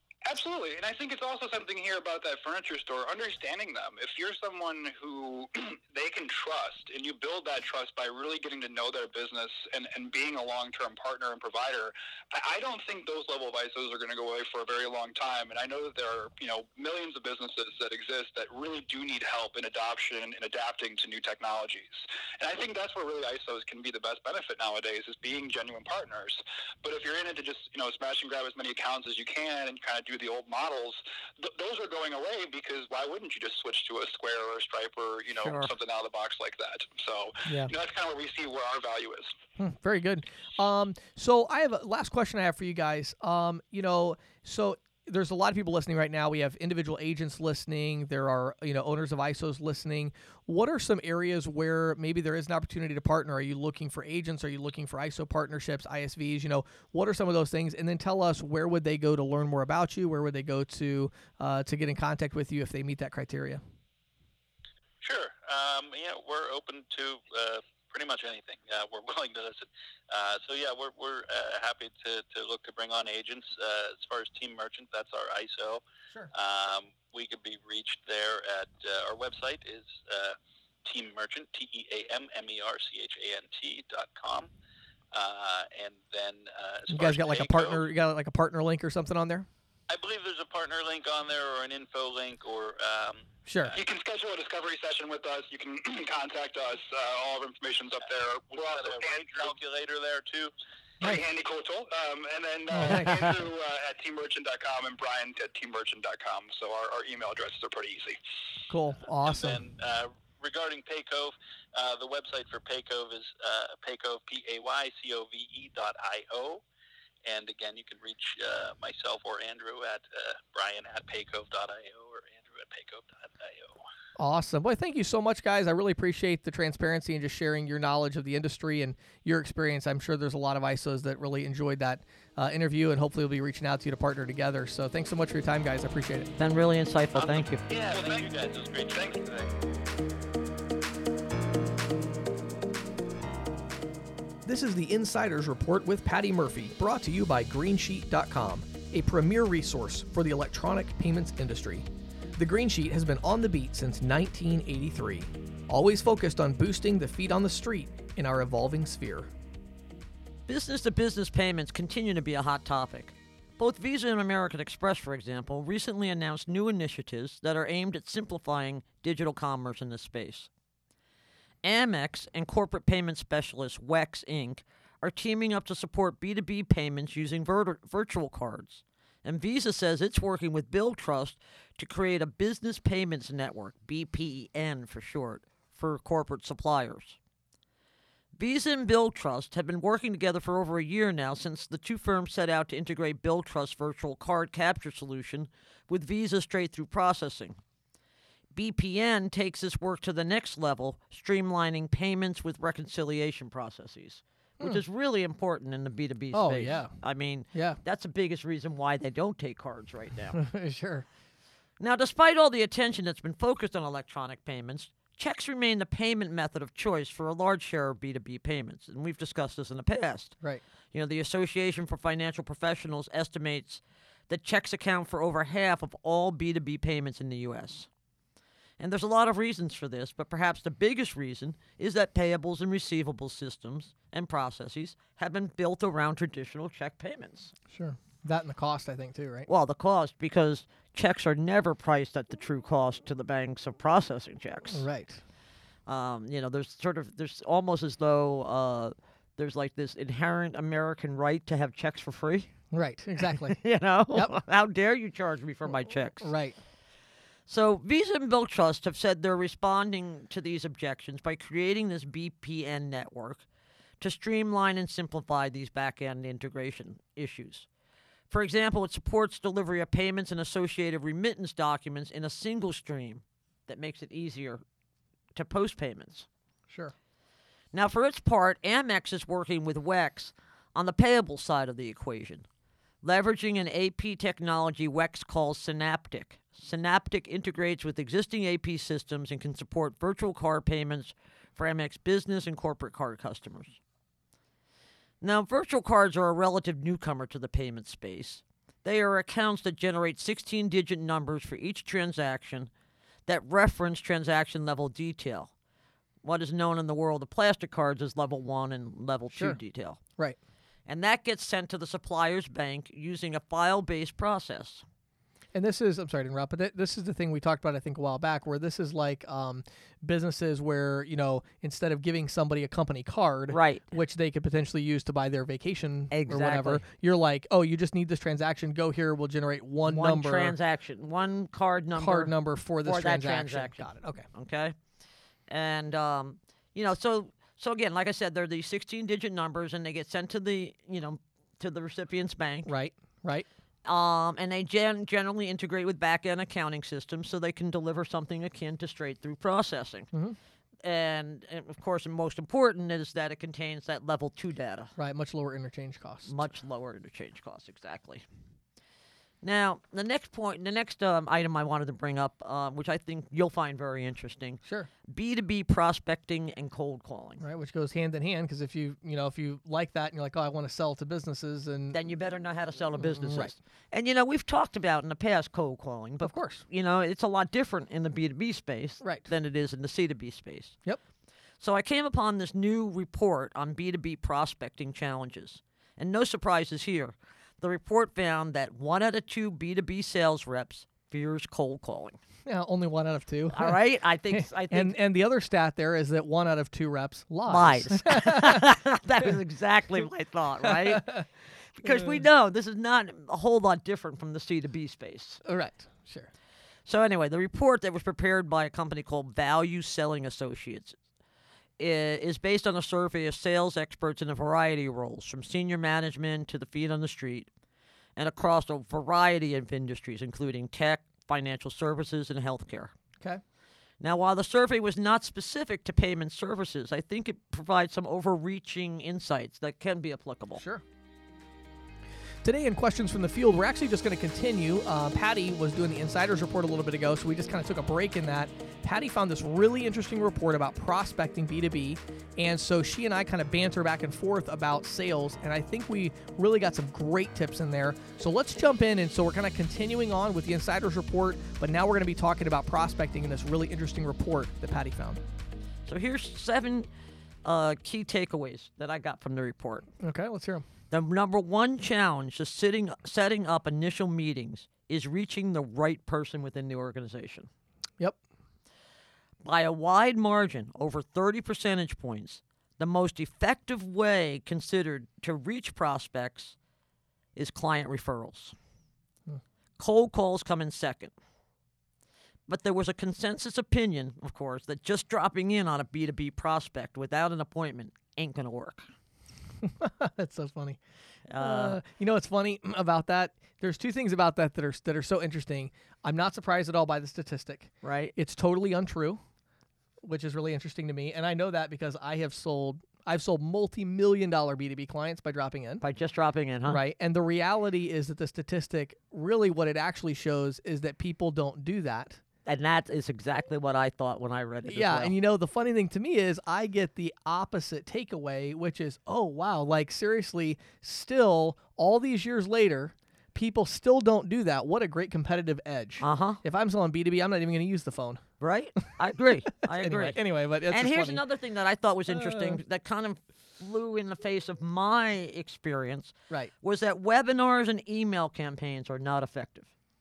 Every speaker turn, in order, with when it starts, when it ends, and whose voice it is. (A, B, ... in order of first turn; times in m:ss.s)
0:00.2-0:39.3 A
0:35.4-0:35.7 B
0:37.4-0:37.7 C
0:39.6-1:03.6 C
1:05.0-1:15.8 D
1:16.3-1:24.5 D
1:25.1-1:27.8 D
1:26.9-1:29.5 C
1:29.9-1:33.8 D
1:33.4-1:33.7 C
1:33.7-1:39.5 A
1:38.5-1:40.5 D
1:41.0-1:48.2 A
1:42.7-1:43.3 C
1:48.7-1:49.6 C
1:49.2-1:56.6 D
1:57.2-2:03.8 D
2:04.2-2:16.3 C
2:16.4-2:17.6 B
2:17.1-2:19.5 D
2:17.9-2:18.2 A
2:24.4-2:39.3 C
2:40.5-2:50.5 B
2:51.6-3:07.2 B
3:08.4-3:17.6 B
3:18.5-3:30.4 B
3:26.3-3:26.9 C
3:27.5-3:27.8 C
3:30.3-3:31.0 C
3:31.8-3:40.4 B
3:40.9-3:47.9 B
3:48.8-3:57.5 B
3:57.7-3:59.5 C
3:59.5-4:04.8 B
4:04.7-4:05.2 C
4:05.9-4:12.5 B
4:12.7-4:13.6 C
4:13.2-4:16.3 B
4:14.1-4:14.4 C
4:16.2-4:16.6 C
4:17.5-4:23.4 B
4:24.0-4:27.7 B
4:28.3-4:34.6 B
4:35.3-4:36.3 B
4:37.7-4:42.4 B
4:43.0-4:53.8 B
4:55.2-5:02.7 B
5:03.3-5:05.5 B
5:06.2-5:10.0 B
5:09.3-5:09.6 C
5:10.9-5:14.8 B
5:15.5-5:30.6 C
5:23.5-5:23.8 B
5:26.1-5:26.8 B
5:29.8-5:33.8 B
5:31.9-5:34.3 C
5:34.3-5:34.8 B
5:35.5-5:42.7 B
5:42.6-5:43.4 C
5:43.8-5:50.1 B
5:50.8-5:54.9 B
5:55.0-5:56.4 C
5:56.3-5:58.2 B
5:59.4-6:07.4 B
6:04.6-6:04.9 C
6:07.4-6:12.0 C
6:11.9-6:20.8 B
6:13.0-6:13.5 C
6:16.2-6:16.6 C
6:19.0-6:19.3 C
6:21.6-6:32.2 B
6:32.4-6:33.8 C
6:33.5-6:35.0 B
6:34.3-6:38.6 C
6:37.5-6:45.4 B
6:40.7-6:41.2 C
6:41.8-6:42.2 C
6:45.4-6:46.3 C
6:46.8-6:51.0 B
6:51.8-6:57.5 B
6:58.2-7:02.9 B
7:04.0-7:10.6 B
7:10.6-7:10.8 C
7:12.4-7:35.2 C
7:35.8-7:36.9 B
7:37.4-7:39.9 B
7:40.0-7:40.6 C
7:40.9-7:47.5 B
7:49.4-7:56.5 B
7:57.4-7:58.6 B
7:59.8-8:01.1 B
8:02.5-8:08.9 B
8:09.6-8:10.8 C
8:11.3-8:11.8 B
8:11.4-8:19.2 C
8:17.8-8:18.1 B
8:20.0-8:25.8 C
8:25.8-8:26.8 B
8:26.6-8:32.2 C
8:32.4-8:35.2 B
8:34.6-8:48.2 C
8:46.0-8:46.4 B
8:48.4-8:50.2 B
8:49.6-8:51.2 C
8:50.7-8:59.7 B
8:52.1-8:52.6 C